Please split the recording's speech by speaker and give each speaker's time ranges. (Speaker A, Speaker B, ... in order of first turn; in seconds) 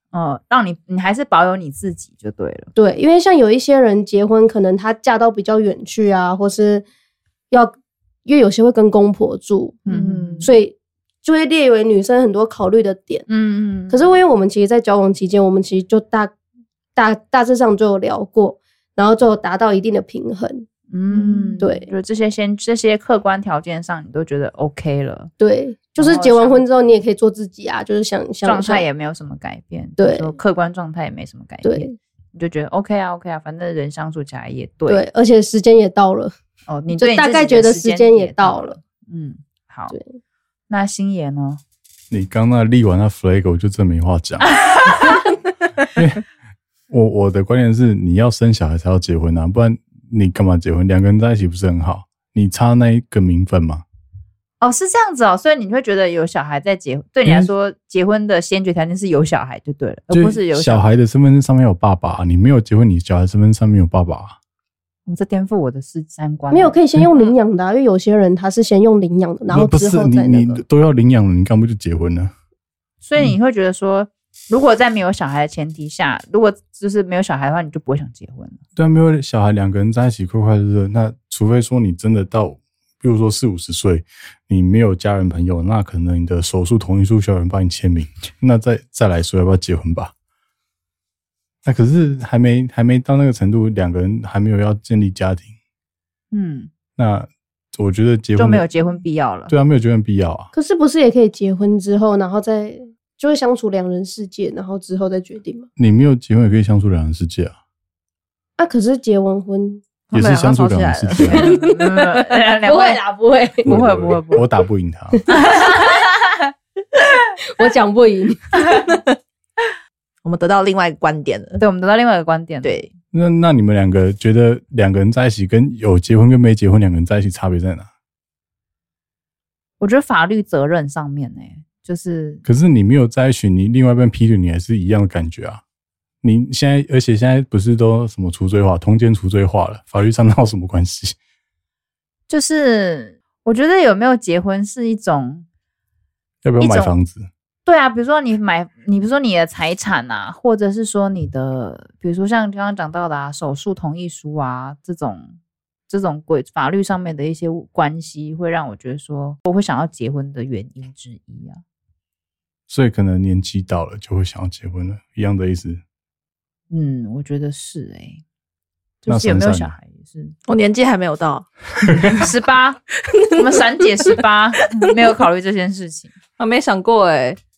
Speaker A: 0.1-2.7, 9.8-10.5, 13.3-14.0, 20.9-25.3, 26.0-26.6, 28.4-35.0, 36.7-40.0, 40.7-41.6, 44.5-45.2, 54.6-60.9, 65.0-67.3, 73.0-78.6, 96.3-96.7, 98.4-99.5, 111.2-113.0, 113.6-114.4, 115.3-116.3, 121.6-122.8, 129.8-132.4, 142.3-145.4, 146.6-146.9, 147.6-155.4, 155.9-161.6, 166.7-168.2, 169.0-170.3, 172.2-172.8, 173.3-176.1
Speaker B: 2.8-6.8, 8.2-9.8, 10.4-13.3, 13.9-16.3, 16.9-20.7, 21.3-21.9, 25.4-28.8, 30.0-30.3, 31.6-31.9, 34.9-36.3, 37.0-38.8, 66.5-70.6, 100.5-105.7, 108.6-109.9, 111.3-111.9, 112.6-113.7, 117.5-118.7
Speaker C: 9.9-10.4, 110.1-112.0, 118.8-119.1, 120.2-121.6, 122.6-122.9, 170.5-171.5, 173.0-174.2, 176.4-177.4
Speaker D: 42.1-44.9, 45.9-46.2, 46.9-53.8, 60.1-64.3, 69.5-72.3, 78.8-90.1, 91.6-95.5, 97.0-98.7, 99.5-100.5, 105.8-107.5, 110.1-111.6, 113.6-115.3, 123.1-127.9, 132.4-135.6, 136.2-141.2, 146.4-147.3, 162.7-165.8, 169.1-169.7, 171.9-172.2